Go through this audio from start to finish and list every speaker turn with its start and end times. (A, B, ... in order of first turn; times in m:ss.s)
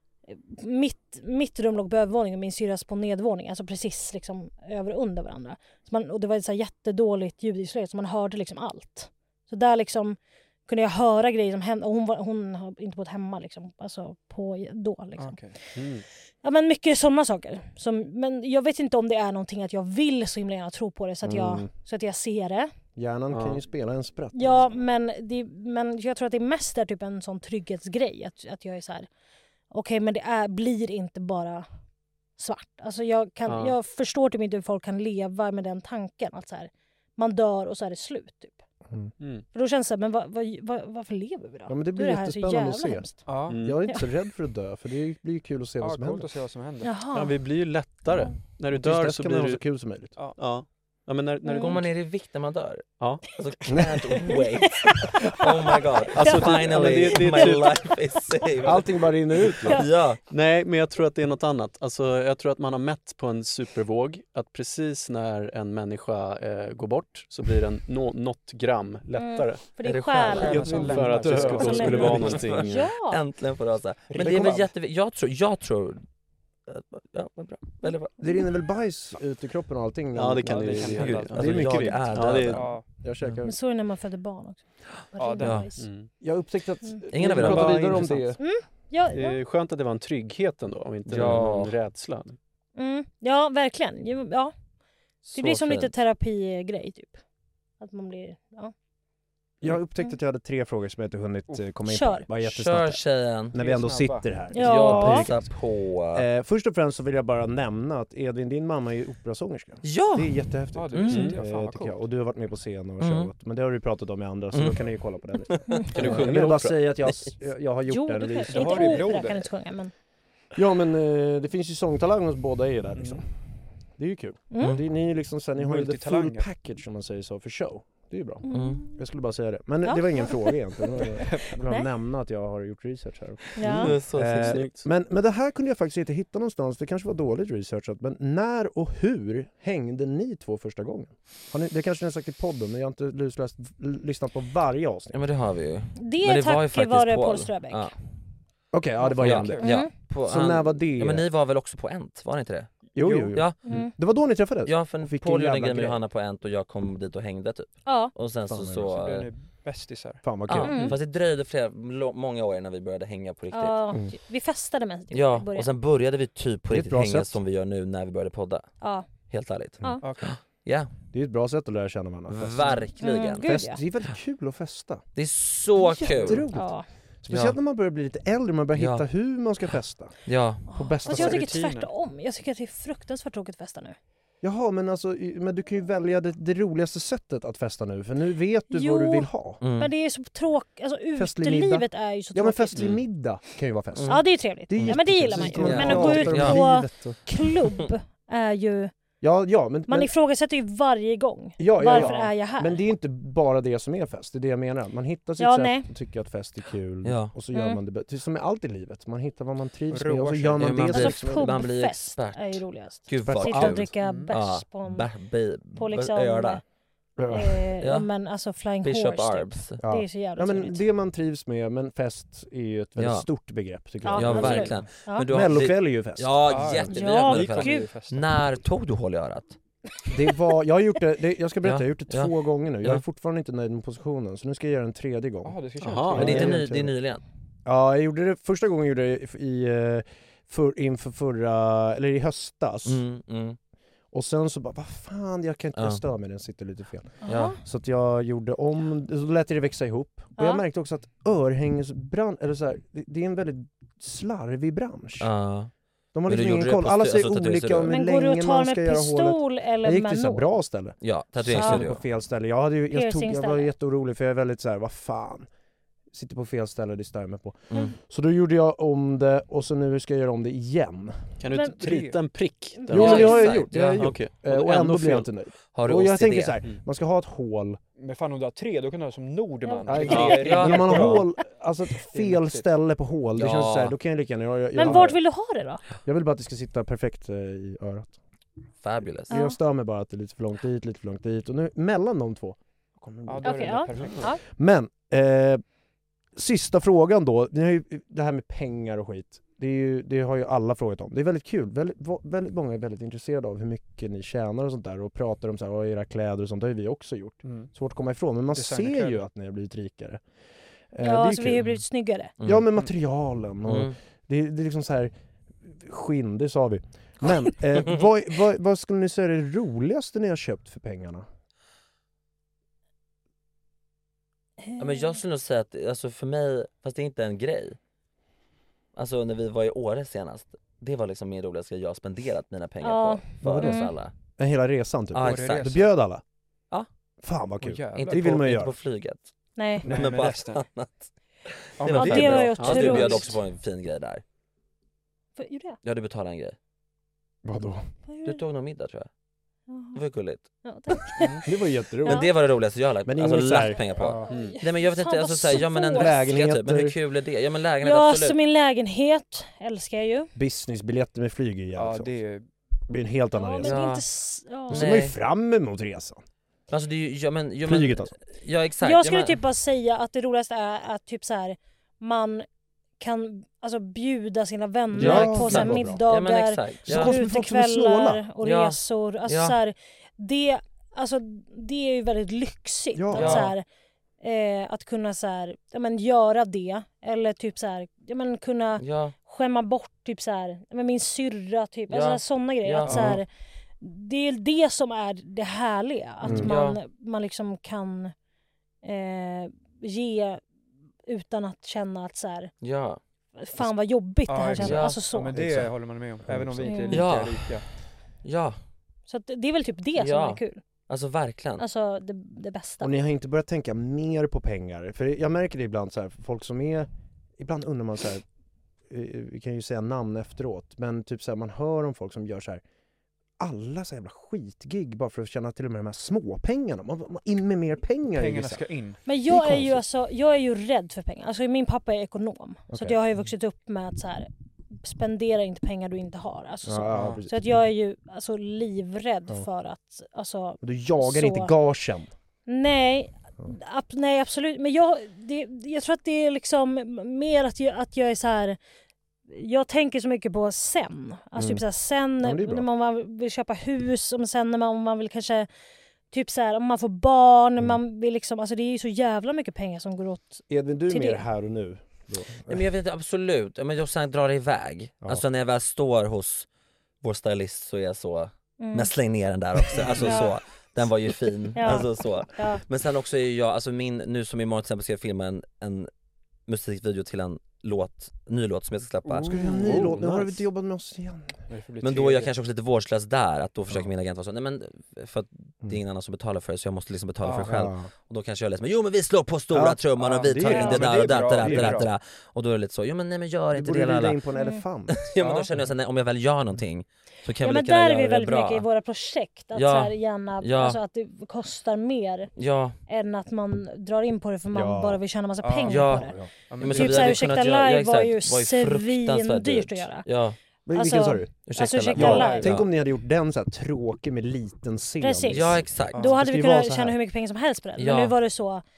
0:00.3-0:15.4 A
0:15.2-0:15.6 B
0:15.8-0:16.0 C
0:16.4-0:22.7 A
0:21.2-0:21.7 D
0:23.0-0:24.7 D
0:23.3-0:23.6 C
0:24.3-0:29.1 A
0:29.7-0:31.7 A
0:32.4-0:38.6 A
0:33.5-0:33.8 C
0:39.2-0:39.5 C
0:39.5-0:43.3 A
0:41.7-0:46.3 D
0:43.3-0:43.6 B
0:43.5-0:43.8 C
0:45.8-0:46.9 B
0:46.8-0:47.4 A
0:47.1-0:49.6 C
0:48.7-0:50.2 D
0:50.4-0:51.9 C
0:51.4-0:51.8 A
0:51.6-0:58.9 E
0:53.0-0:53.4 C
0:53.7-0:53.9 D
0:54.3-0:57.7 A
0:56.1-0:57.9 C
0:58.6-0:59.8 D
0:59.7-1:00.2 E
1:00.3-1:12.9 C
1:09.2-1:13.2 A
1:09.8-1:10.8 E
1:10.4-1:12.4 B
1:11.1-1:12.3 D
1:11.9-1:16.0 E
1:14.2-1:14.7 D
1:16.7-1:18.1 E
1:18.2-1:23.6 D
1:20.2-1:22.7 C
1:20.4-1:21.7 B
1:21.0-1:22.7 E
1:22.5-1:22.8 B
1:23.4-1:25.9 A
1:25.2-1:25.7 B
1:25.4-1:25.7 E
1:25.8-1:26.1 C
1:26.2-1:28.4 D
1:27.1-1:28.2 E
1:27.3-1:28.2 C
1:28.4-1:29.4 A
1:29.1-1:32.4 C
1:31.1-1:31.7 E
1:32.8-1:34.5 A
1:35.2-1:36.0 E
1:35.3-1:37.2 A
1:37.8-1:38.7 A
1:39.6-1:45.5 D
1:41.9-1:42.3 A
1:42.4-1:43.6 E
1:43.6-1:44.4 B
1:44.5-1:45.3 A
1:44.6-1:46.3 E
1:46.1-1:59.2 D
1:49.8-1:51.3 E
1:50.7-1:52.0 B
1:51.1-1:51.4 C
1:53.0-1:53.3 E
1:54.5-1:54.9 E
1:55.4-1:56.2 E
1:55.9-1:56.8 C
1:57.9-1:59.9 A
1:58.5-1:59.5 B
2:00.6-2:03.3 D
2:03.0-2:03.2 B
2:04.0-2:25.2 D
2:04.5-2:04.8 A
2:05.6-2:06.5 B
2:08.4-2:09.0 A
2:08.5-2:08.8 E
2:09.8-2:10.6 A
2:11.2-2:11.6 B
2:13.6-2:14.0 A
2:13.6-2:14.6 E
2:14.1-2:14.9 C
2:25.1-2:27.9 E
2:26.0-2:27.9 A
2:28.7-2:31.3 D
2:29.0-2:29.7 B
2:29.2-2:32.7 E
2:29.6-2:29.9 A
2:32.9-2:36.0 D
2:33.0-2:33.4 B
2:33.3-2:33.6 E
2:33.6-2:33.9 A
2:34.7-2:39.3 E
2:37.9-2:38.1 A
2:38.5-2:39.0 D
2:39.0-2:40.2 B
2:40.2-2:40.9 D
2:40.5-2:43.8 E
2:40.6-2:41.0 A
2:43.5-2:45.7 A
2:45.1-2:48.7 E
2:46.7-2:47.4 D
2:48.8-2:49.1 A
2:49.3-2:50.9 E
2:50.0-2:50.3 B
2:51.1-2:55.1 D
2:52.3-2:53.5 E
2:53.0-2:53.8 A
2:55.2-2:56.5 E
2:55.8-3:00.2 D
2:56.5-2:56.9 A
2:57.3-2:57.6 E
2:58.8-2:59.0 E
3:00.3-3:00.7 E
3:00.7-3:01.5 D
3:00.7-3:04.0 A
3:01.1-3:01.9 B
3:04.4-3:09.6 D
3:08.7-3:12.9 A
3:09.6-3:09.9 E
3:11.2-3:17.5 D
3:14.0-3:16.6 E
3:14.1-3:18.9 A
3:19.2-3:20.1 D
3:19.9-3:22.8 A
3:21.6-3:31.6 D
3:21.9-3:22.3 B
3:25.4-3:25.9 A
3:27.0-3:27.3 E
3:27.5-3:27.8 A
3:29.9-3:30.8 B
3:30.6-3:36.6 E
3:30.9-3:35.1 A
3:33.2-3:33.9 D
3:34.0-3:34.3 B
3:35.8-3:36.6 A
3:37.2-3:37.7 D
3:37.3-3:40.8 A
3:37.8-3:38.1 E
3:38.8-3:39.8 E
3:39.8-3:46.8 D
3:43.0-3:43.3 E
3:44.0-3:45.3 A
3:44.1-3:49.6 E
3:46.5-3:48.3 B
3:46.9-3:47.9 A
3:50.1-3:55.6 D
3:51.6-3:53.0 E
3:55.4-3:56.6 B
3:55.8-3:56.6 C
3:56.1-3:56.9 D
3:56.2-3:57.2 E
3:57.6-4:03.0 D
4:02.9-4:03.6 E
4:04.1-4:15.3 D
4:05.8-4:06.0 E
4:07.2-4:07.6 A
4:07.3-4:07.6 E
4:10.4-4:10.6 A
4:15.2-4:15.7 E
4:16.1-4:25.5 D
4:16.3-4:17.9 E
4:17.9-4:20.5 A
4:21.0-4:22.0 E
4:21.5-4:21.8 A
4:22.9-4:23.7 A
4:26.1-4:31.2 D
4:31.4-4:35.3 C
4:31.5-4:31.8 A
4:31.8-4:32.2 B
4:32.8-4:33.6 A
4:32.9-4:37.8 D
4:32.9-4:34.2 E
4:35.7-4:36.6 E
4:38.0-4:41.3 B
4:39.6-4:40.6 A
4:39.9-4:45.2 D
4:40.1-4:41.2 E
4:42.1-4:42.7 B
4:43.4-4:44.0 E
4:44.8-4:45.8 A
4:46.0-4:48.2 D
4:48.8-4:49.3 E
4:49.3-4:55.6 D
4:49.3-4:49.6 A
4:53.3-4:54.3 B
4:53.4-4:54.4 A
4:56.4-5:10.2 D
5:07.4-5:07.7 B
5:08.5-5:09.2 B
5:10.9-5:11.7 D
5:11.0-5:12.3 A
5:12.4-5:12.6 E
5:12.4-5:15.1 D
5:13.7-5:14.0 E
5:15.6-5:21.2 D
5:24.6-5:25.2 A
5:24.8-5:27.8 E
5:29.0-5:34.1 E
5:32.8-5:33.9 A
5:33.4-5:33.9 D
5:34.4-5:36.2 D
5:35.1-5:35.8 E
5:35.2-5:35.9 B
5:37.2-5:38.8 D
5:37.6-5:38.3 B
5:37.9-5:39.3 E
5:39.6-5:39.9 A
5:39.8-5:44.2 E
5:39.8-5:40.6 B
5:41.8-5:43.2 B
5:41.9-5:43.4 A
5:42.6-5:43.2 C
5:45.4-5:45.8 A
5:45.8-5:46.6 E
5:47.4-5:47.9 D
5:48.1-5:48.4 A
5:48.2-5:49.1 E
5:49.7-5:50.0 A
5:49.9-5:50.5 E
5:50.6-5:51.5 A
5:51.4-5:52.3 D
5:52.0-5:58.4 E
5:53.1-5:54.0 D
5:54.0-5:54.3 B
5:54.3-5:54.6 C
5:54.3-5:56.2 A
5:55.8-5:57.0 D
5:57.8-6:00.3 A
6:00.4-6:02.1 D
6:01.8-6:02.5 B
6:02.9-6:03.8 D
6:03.4-6:04.9 A
6:03.6-6:04.0 E
6:04.7-6:05.2 E
6:04.7-6:06.2 D
6:06.7-6:09.4 E
6:07.6-6:08.1 D
6:08.8-6:12.5 A
6:13.0-6:23.6 A
6:14.9-6:16.0 D
6:15.0-6:17.2 E
6:16.8-6:18.2 D
6:18.4-6:19.6 E
6:22.9-6:23.5 D
6:23.1-6:23.5 E
6:24.2-6:33.3 A
6:28.8-6:29.2 E
6:31.9-6:33.1 E
6:32.9-6:33.2 B
6:32.9-6:33.2 D
6:33.8-6:38.1 A
6:36.2-6:36.5 D
6:36.3-6:36.8 E
6:38.8-6:40.4 A
6:41.1-6:42.5 A
6:42.6-6:43.0 E
6:43.4-6:45.4 A
6:44.3-6:47.6 B
6:44.6-6:45.0 E
6:45.4-6:45.7 D
6:46.2-6:46.9 D
6:46.6-6:47.0 A
6:46.9-6:47.6 E
6:48.2-6:48.6 E
6:49.1-6:50.6 A
6:50.0-6:51.6 E
6:51.6-6:53.0 A
6:52.8-6:58.2 D
6:58.9-7:02.6 D
7:03.4-7:08.6 D
7:08.1-7:09.0 B
7:09.1-7:21.6 A
7:09.3-7:09.8 D
7:12.7-7:13.0 D
7:16.6-7:17.6 D
7:20.6-7:22.1 D
7:22.5-7:28.6 A
7:29.3-7:35.5 A
7:31.4-7:31.6 D
7:32.2-7:32.6 D
7:36.1-7:41.2 A
7:40.5-7:42.6 D
7:42.5-7:46.5 E
7:47.0-7:55.9 E
7:48.6-7:48.9 A
7:49.7-7:50.3 D
7:50.0-7:50.3 A
7:51.6-7:52.6 A
7:56.5-7:59.3 E
7:59.0-8:00.0 B
7:59.2-8:01.4 D
7:59.6-8:00.4 C
8:01.5-8:02.3 B
8:01.8-8:14.2 E
8:07.2-8:07.6 B
8:07.4-8:07.9 D
8:09.5-8:11.9 D
8:10.0-8:11.9 B
8:10.5-8:10.8 A
8:13.5-8:15.1 D
8:14.4-8:14.6 A
8:14.9-8:18.7 E
8:15.2-8:15.5 B
8:17.4-8:22.3 A
8:19.5-8:20.8 E
8:22.4-8:22.8 E
8:22.9-8:26.2 A
8:24.5-8:25.0 D
8:25.4-8:27.3 B
8:25.7-8:30.4 E
8:25.9-8:26.3 D
8:26.7-8:30.1 A
8:30.7-8:31.4 D
8:30.7-8:32.5 A
8:31.5-8:32.7 E
8:31.9-8:37.0 D
8:32.0-8:32.6 B
8:35.0-8:38.6 A
8:35.3-8:36.0 E
8:35.9-8:36.2 B
8:37.8-8:38.2 E